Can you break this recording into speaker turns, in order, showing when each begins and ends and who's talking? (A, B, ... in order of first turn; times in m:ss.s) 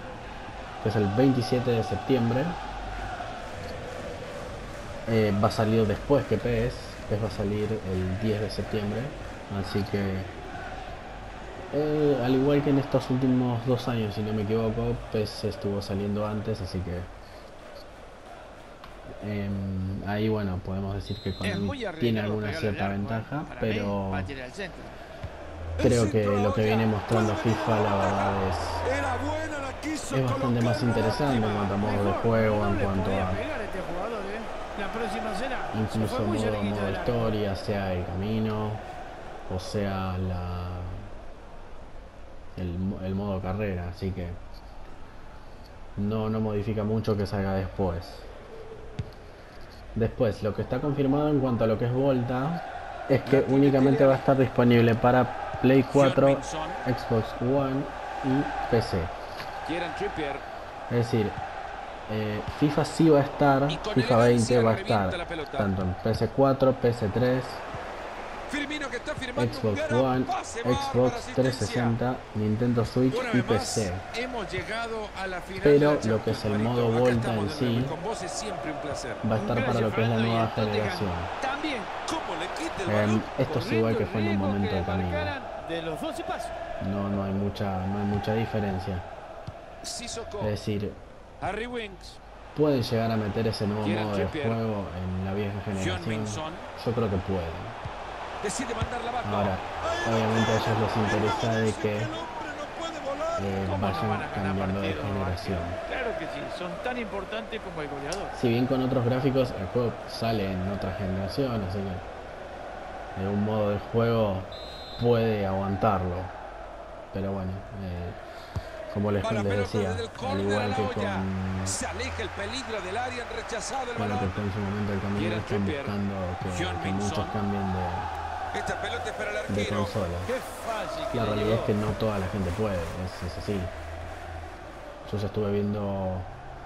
0:00.8-0:02.6 A
0:05.1-0:10.3 A
0:11.7-0:17.1 A
0:19.2-0:24.3 A
0:21.4-0:24.9 B
0:25.8-0:31.8 C
0:25.8-0:28.9 A
0:30.1-0:33.4 A
0:31.7-0:37.4 B
0:35.7-0:38.8 A
0:39.5-0:41.1 A
0:42.6-0:44.4 A
0:46.0-0:48.3 A
0:50.0-0:59.1 A
0:53.2-0:54.3 C
0:55.9-0:56.8 C
0:59.6-1:00.4 C
1:00.9-1:01.4 A
1:02.1-1:07.6 A
1:03.7-1:05.7 C
1:08.5-1:12.0 C
1:09.4-1:14.0 A
1:13.1-1:19.2 C
1:15.6-1:18.0 A
1:19.2-1:21.3 A
1:19.4-1:21.9 B
1:22.0-1:23.4 C
1:22.8-1:25.4 A
1:23.4-1:26.6 B
1:26.8-1:29.1 A
1:29.8-1:30.6 C
1:30.4-1:31.0 A
1:31.4-1:32.2 C
1:32.5-1:37.8 A
1:33.8-1:34.6 C
1:35.7-1:36.7 C
1:38.4-1:43.5 C
1:39.2-1:42.1 A
1:43.4-1:45.8 A
1:43.6-1:48.3 B
1:48.3-1:52.1 A
1:53.2-1:56.4 A
1:57.1-1:58.2 A
1:58.9-2:01.8 A
1:59.2-2:04.4 C
2:04.0-2:08.1 A
2:05.2-2:07.4 C
2:08.5-2:10.0 C
2:09.5-2:10.3 A
2:10.3-2:11.8 B
2:11.1-2:13.7 A
2:15.0-2:16.3 A